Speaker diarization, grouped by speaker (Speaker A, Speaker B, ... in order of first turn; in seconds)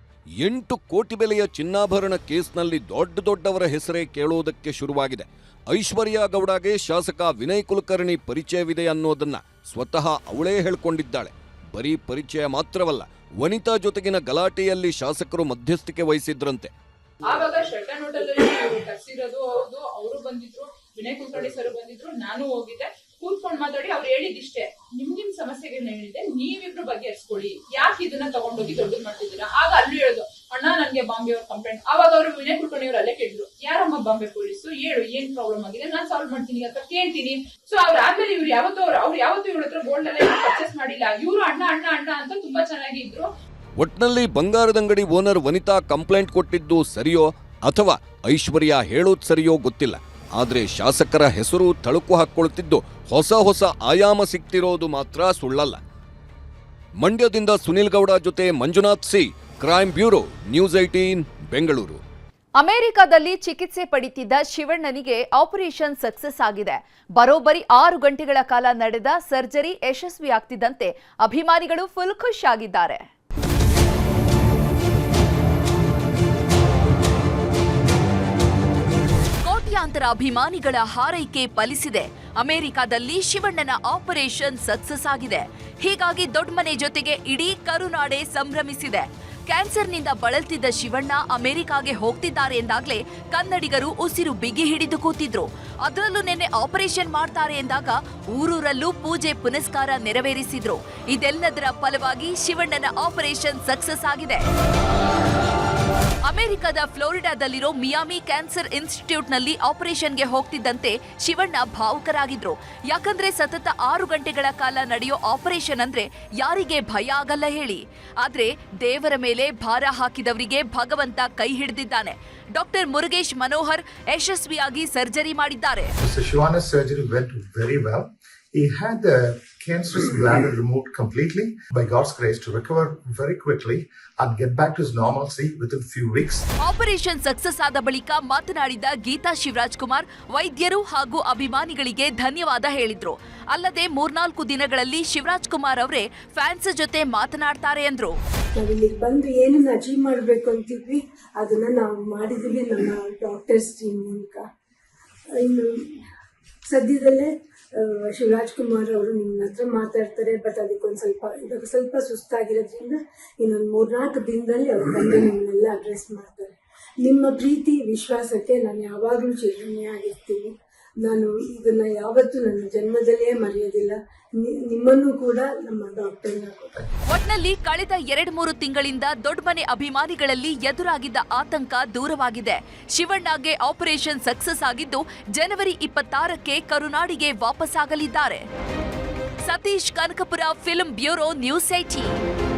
Speaker A: 0.4-16.7, 43.8-55.8, 57.0-62.0
Speaker B: 17.3-43.3
Speaker C: 62.6-73.0, 79.4-104.5, 106.2-125.9, 136.6-148.2, 177.1-188.4, 189.4-192.1
Speaker D: 126.0-136.4
Speaker E: 148.6-154.4, 156.7-157.3, 158.2-166.5, 167.1-170.4, 171.1-173.9, 174.7-176.6